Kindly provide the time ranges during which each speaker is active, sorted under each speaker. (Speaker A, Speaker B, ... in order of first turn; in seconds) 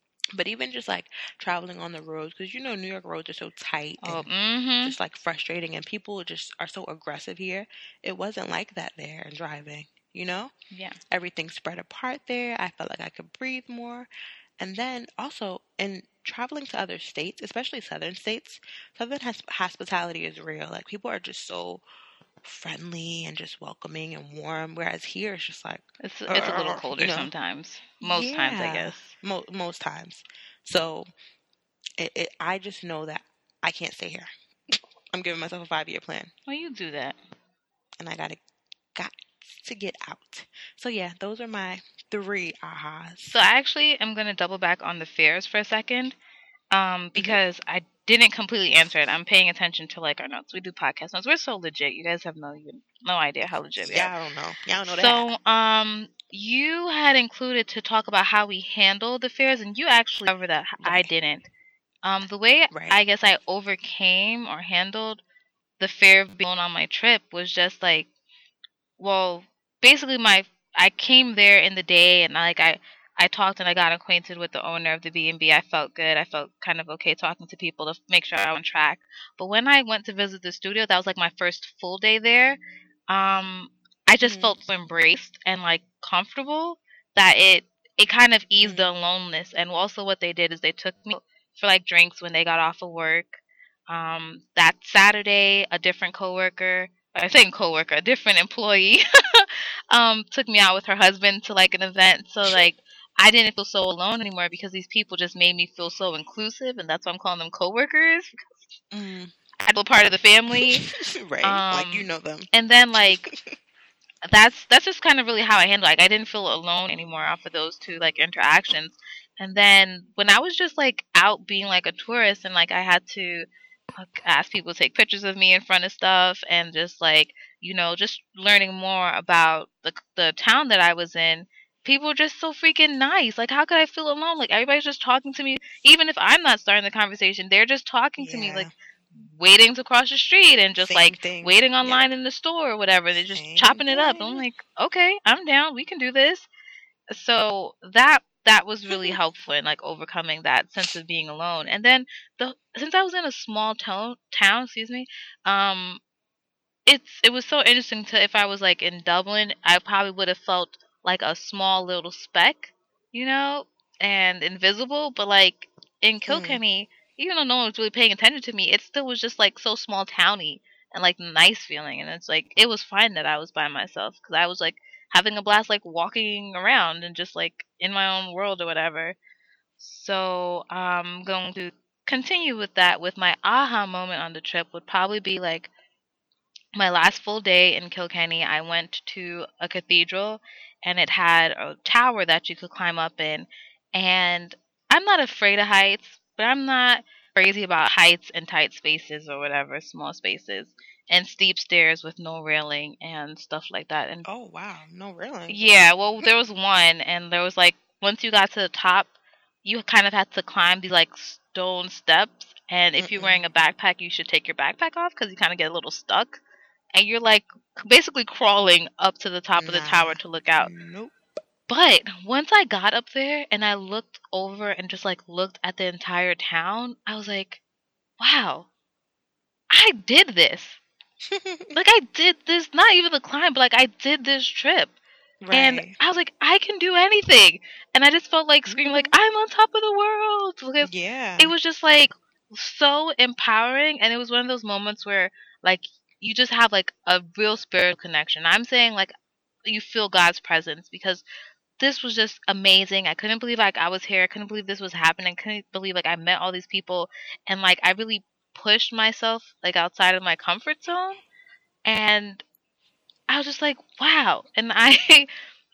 Speaker A: 0.3-4.2, 4.8-10.5, 11.1-21.8, 22.4-27.3, 28.0-31.1, 32.0-34.3, 35.1-36.3, 38.0-38.4, 38.9-43.4, 47.1-47.4, 53.8-55.2, 60.8-61.1, 62.7-63.0, 84.2-84.6, 88.6-88.9, 108.9-109.3, 110.5-112.5, 138.2-138.7, 140.8-142.1, 143.2-144.4, 148.9-149.2, 166.3-166.6, 204.2-206.3, 213.0-213.5, 219.5-221.1, 231.2-231.8, 235.4-235.9, 238.7-239.1, 240.8-241.5
Speaker B: 4.0-5.0, 10.7-11.0, 26.0-29.1, 36.5-37.2, 43.3-46.1, 46.7-54.1, 54.8-61.5, 62.0-65.2, 65.8-68.1, 69.0-108.6, 109.6-110.8, 111.4-113.3, 114.3-146.5, 147.1-156.0, 156.8-179.2, 179.8-185.7, 186.8-204.2, 205.5-209.1, 209.6-216.4, 216.9-220.7, 221.7-227.6, 228.2-228.7, 229.7-230.8, 231.7-234.9, 235.5-249.1, 249.6-251.2, 251.8-261.2, 261.9-262.4, 263.3-265.3